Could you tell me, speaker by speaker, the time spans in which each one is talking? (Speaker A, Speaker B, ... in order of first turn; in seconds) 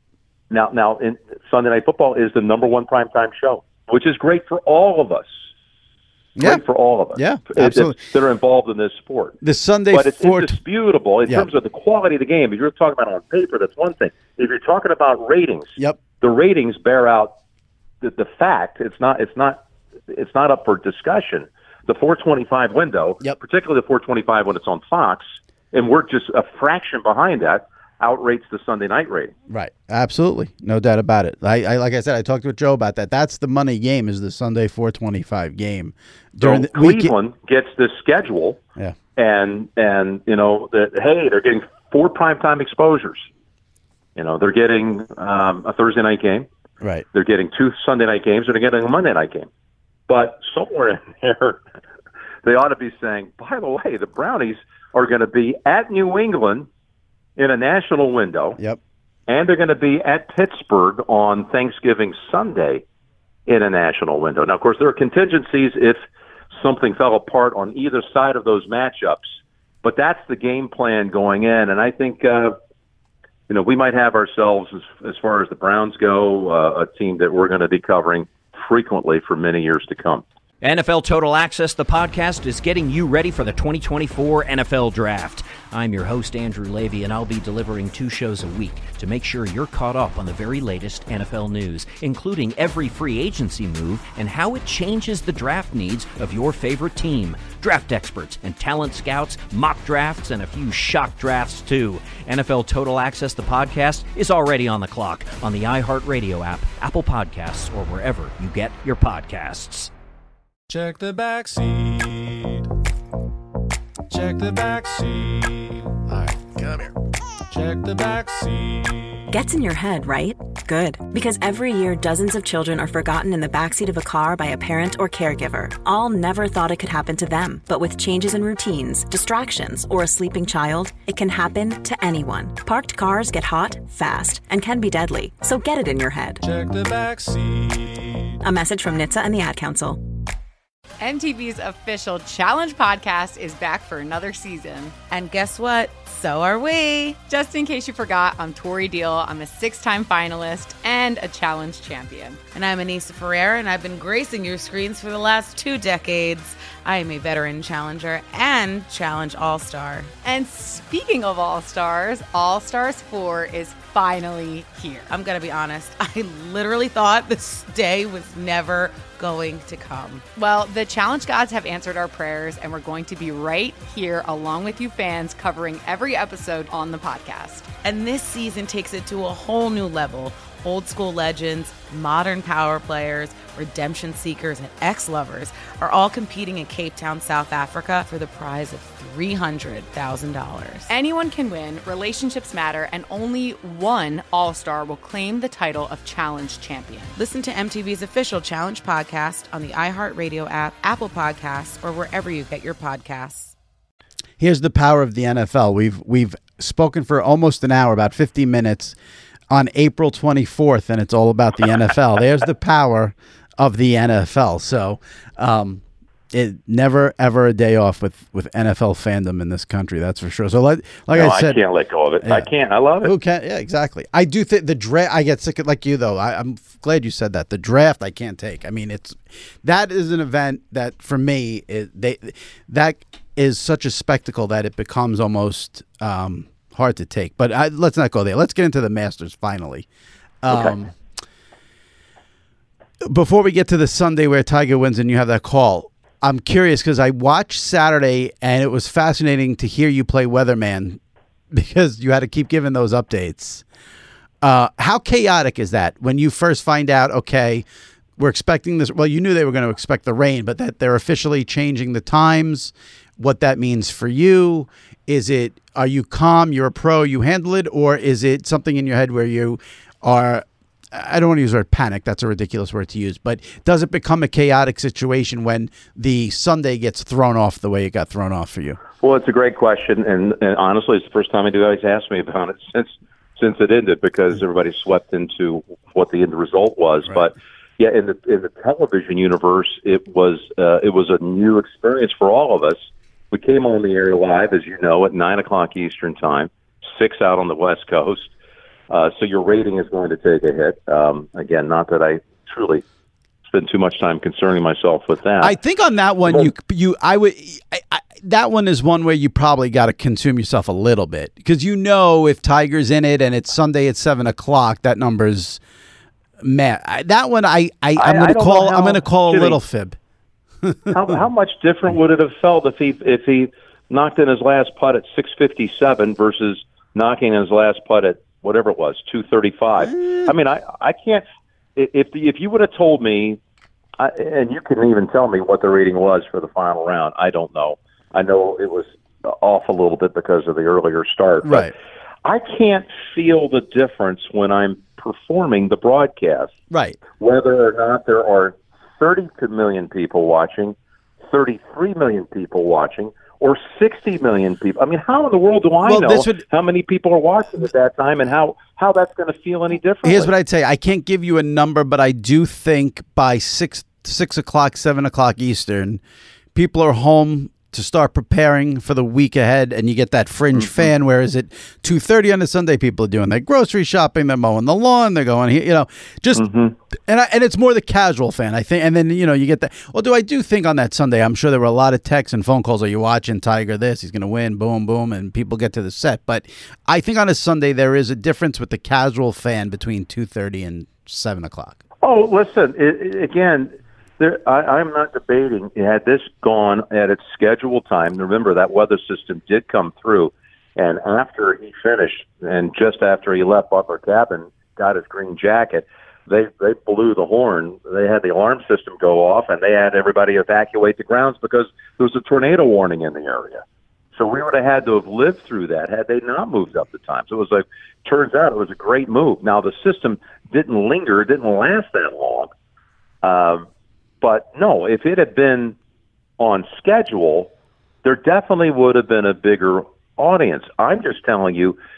Speaker A: 0.5-5.3, 6.4-9.4, 9.9-17.3, 18.0-29.3, 36.4-38.6, 39.1-43.2, 44.1-46.5, 47.1-49.5, 50.1-51.6, 52.4-56.7, 57.4-58.6, 59.3-62.8, 63.5-66.0, 66.5-72.5, 73.5-80.2, 221.1-223.1, 240.5-240.7, 279.0-298.3, 298.9-302.8, 303.5-305.5, 318.0-319.6, 320.9-331.2, 331.8-333.4, 334.0-341.7, 342.2-346.5, 347.1-360.3, 376.3-376.8, 392.0-413.6, 414.1-422.5, 423.2-423.7, 424.2-425.8, 426.4-427.5, 428.0-431.8
Speaker B: 6.4-6.6, 7.1-8.0, 9.4-10.6, 29.5-37.1, 116.1-116.9, 204.4-208.9, 209.5-221.6, 223.0-239.9, 240.4-240.9, 243.0-251.0, 251.5-253.6, 254.4-257.6, 258.2-278.8, 305.4-315.6, 316.4-320.0, 320.6-321.1, 329.8-330.3, 341.4-341.7, 346.7-347.0, 355.8-356.4, 360.0-366.0, 366.5-376.4, 377.1-391.8
Speaker C: 80.6-109.9
Speaker D: 110.7-112.7, 114.1-116.3, 117.5-119.3, 136.4-138.4
Speaker E: 119.3-136.4, 138.4-140.0
Speaker F: 141.0-144.9, 147.3-152.4, 160.2-165.1, 170.3-177.7, 190.9-197.1
Speaker G: 145.1-147.2, 152.5-160.1, 165.1-170.2, 177.8-190.9, 197.2-203.5